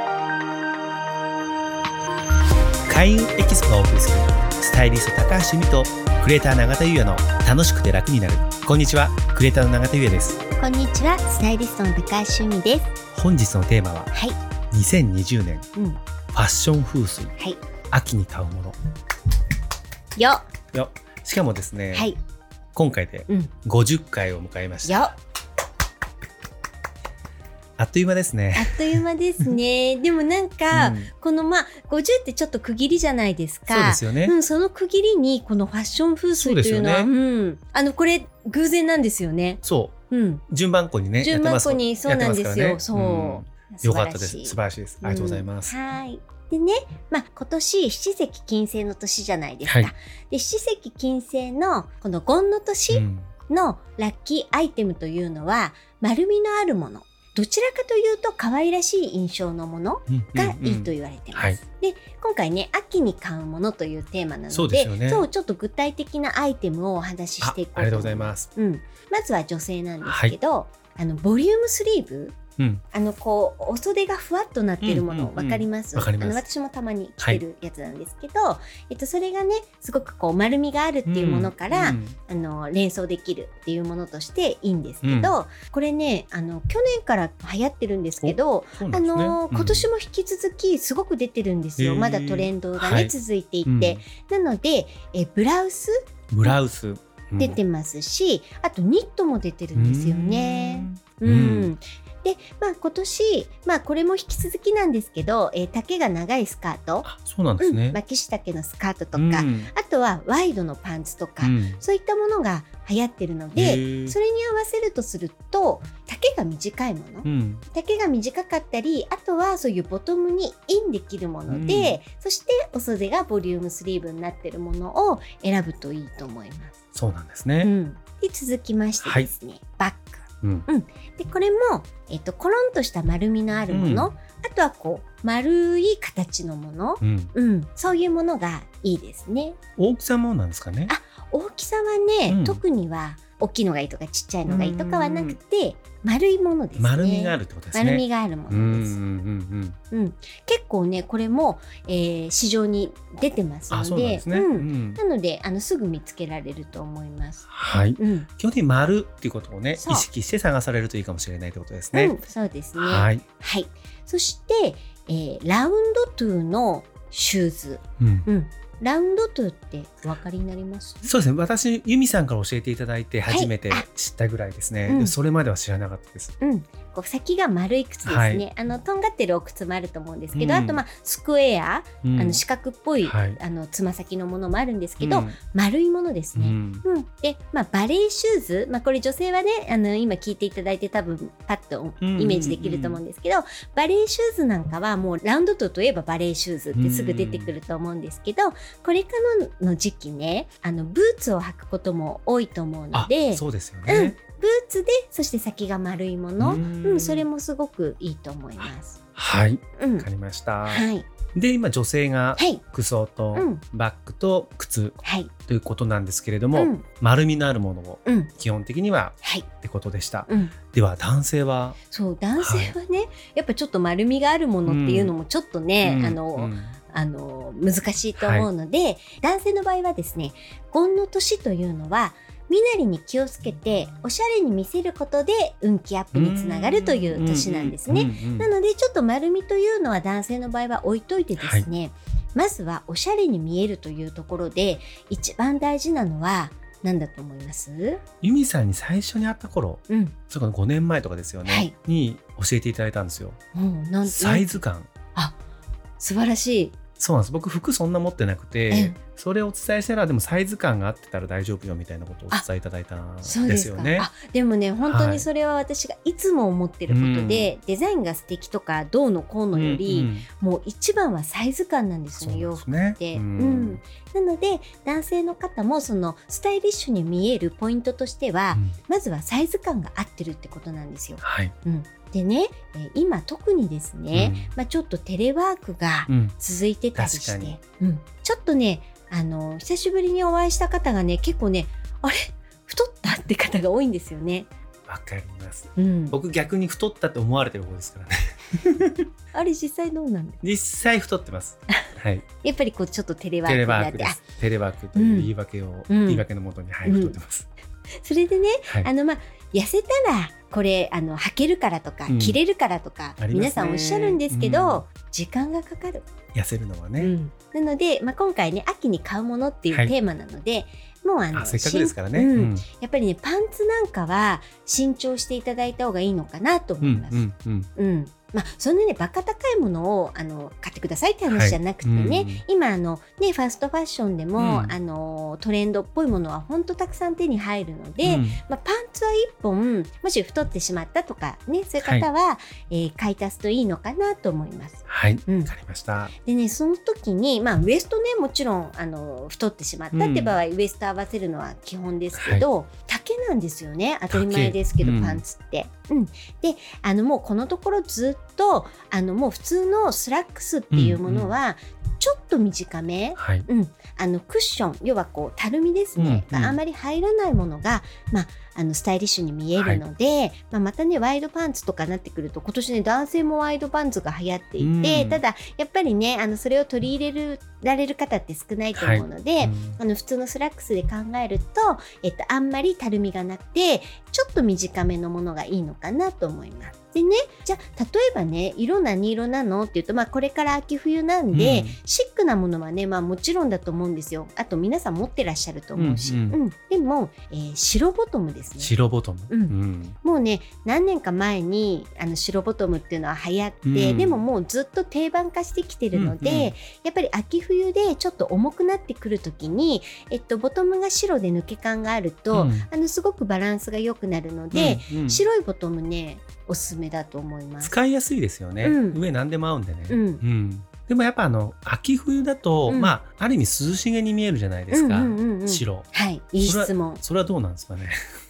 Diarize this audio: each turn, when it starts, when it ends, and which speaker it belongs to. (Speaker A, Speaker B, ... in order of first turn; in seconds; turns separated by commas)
Speaker A: 2.9-10.4, Speaker B: 10.6-12.9, Speaker A: 13.1-14.1, Speaker B: 14.1-14.4, Speaker A: 14.7-15.7, Speaker B: 15.7-16.0, Speaker A: 16.3-17.3, Speaker A: 17.9-18.8, Speaker B: 20.1-20.5, Speaker A: 20.7-22.1, Speaker B: 21.9-22.2, Speaker A: 22.7-25.1, Speaker B: 23.3-23.5, Speaker B: 24.8-25.1, Speaker A: 27.8-29.0, Speaker B: 28.5-40.4, Speaker A: 30.7-31.1, Speaker A: 33.7-34.3, Speaker A: 36.4-37.1, Speaker A: 39.6-39.9, Speaker A: 40.5-45.7, Speaker B: 41.2-72.4, Speaker A: 49.6-49.9, Speaker A: 52.9-53.3, Speaker A: 60.1-61.6, Speaker A: 64.5-65.3, Speaker A: 67.4-68.5, Speaker A: 70.0-70.3, Speaker A: 72.6-72.8, Speaker B: 72.9-96.5, Speaker A: 74.8-76.4, Speaker A: 81.1-82.2, Speaker A: 85.0-85.3, Speaker A: 88.2-89.9, Speaker A: 91.8-93.1, Speaker A: 93.7-94.0, Speaker A: 96.3-97.6, Speaker B: 97.4-107.0, Speaker A: 99.7-101.7, Speaker A: 107.0-108.0, Speaker B: 107.6-126.8, Speaker A: 109.1-109.7, Speaker A: 111.4-111.8, Speaker A: 113.5-114.2, Speaker A: 117.2-117.6, Speaker A: 121.5-122.0, Speaker A: 126.9-127.7, Speaker B: 127.6-139.6, Speaker A: 129.0-129.3, Speaker A: 130.4-130.7, Speaker A: 133.7-134.1, Speaker A: 137.0-137.3, Speaker A: 139.8-140.9, Speaker B: 140.9-149.0, Speaker A: 142.3-142.6, Speaker A: 144.5-145.4, Speaker A: 146.8-149.8, Speaker B: 149.9-158.3, Speaker A: 153.7-155.0, Speaker A: 157.5-162.2, Speaker B: 159.7-160.1, Speaker B: 161.9-171.1, Speaker A: 162.8-163.2, Speaker A: 168.0-168.3, Speaker A: 171.0-176.3, Speaker B: 173.3-173.9, Speaker B: 174.8-175.2, Speaker B: 176.4-209.0, Speaker A: 178.0-178.4, Speaker A: 180.3-180.8, Speaker A: 182.0-182.4, Speaker A: 183.0-183.4, Speaker A: 185.0-185.3, Speaker A: 186.3-186.8, Speaker A: 192.0-193.0, Speaker A: 196.7-197.6, Speaker A: 202.9-204.2, Speaker A: 206.4-207.3, Speaker A: 209.2-221.8, Speaker B: 209.8-210.1, Speaker B: 210.7-211.1, Speaker B: 212.4-212.6, Speaker B: 213.3-213.6, Speaker B: 215.0-215.3, Speaker B: 216.5-216.8, Speaker B: 218.0-218.3, Speaker B: 220.3-220.5, Speaker B: 221.9-248.0, Speaker A: 222.4-222.8, Speaker A: 224.6-225.1, Speaker A: 225.8-226.8, Speaker A: 228.2-228.5, Speaker A: 236.1-238.5, Speaker A: 241.4-241.7, Speaker A: 248.2-253.4, Speaker B: 249.9-250.2, Speaker B: 251.4-251.7, Speaker B: 253.5-254.5, Speaker A: 254.0-254.9, Speaker B: 256.0-256.7, Speaker A: 257.0-264.1, Speaker B: 258.7-258.9, Speaker B: 263.2-294.5, Speaker A: 264.8-265.3, Speaker A: 266.9-267.5, Speaker A: 269.5-270.2, Speaker A: 272.2-273.8, Speaker A: 281.2-281.5, Speaker A: 284.1-284.5, Speaker A: 286.1-286.3, Speaker A: 286.9-287.6, Speaker A: 294.9-299.1, Speaker B: 295.8-296.1, Speaker B: 299.3-300.4, Speaker A: 300.4-302.2, Speaker B: 302.4-304.2, Speaker A: 303.4-307.5, Speaker B: 304.9-305.3, Speaker B: 305.9-306.2, Speaker B: 306.8-307.2, Speaker B: 308.0-316.1, Speaker A: 312.1-312.4, Speaker A: 313.2-314.8, Speaker A: 316.3-317.1, Speaker B: 317.0-345.5, Speaker A: 321.3-322.6, Speaker A: 326.8-327.7, Speaker A: 331.3-332.4, Speaker A: 334.4-334.8, Speaker A: 338.0-338.4, Speaker A: 341.8-342.1, Speaker A: 344.9-346.1, Speaker B: 346.2-398.7, Speaker A: 349.9-350.4, Speaker A: 352.1-352.4, Speaker A: 354.1-355.2, Speaker A: 360.7-361.3, Speaker A: 363.2-363.5, Speaker A: 365.9-366.6, Speaker A: 369.6-369.8, Speaker A: 374.6-375.2, Speaker A: 378.8-379.8, Speaker A: 391.3-391.8, Speaker A: 395.8-396.4, Speaker A: 398.6-399.9, Speaker B: 399.3-417.7, Speaker A: 403.6-404.2, Speaker A: 405.9-406.5, Speaker A: 412.3-412.7, Speaker A: 414.5-415.2, Speaker A: 417.6-425.9, Speaker B: 418.6-419.0, Speaker B: 419.9-420.2, Speaker B: 422.7-422.9, Speaker B: 424.7-427.0, Speaker A: 426.4-428.0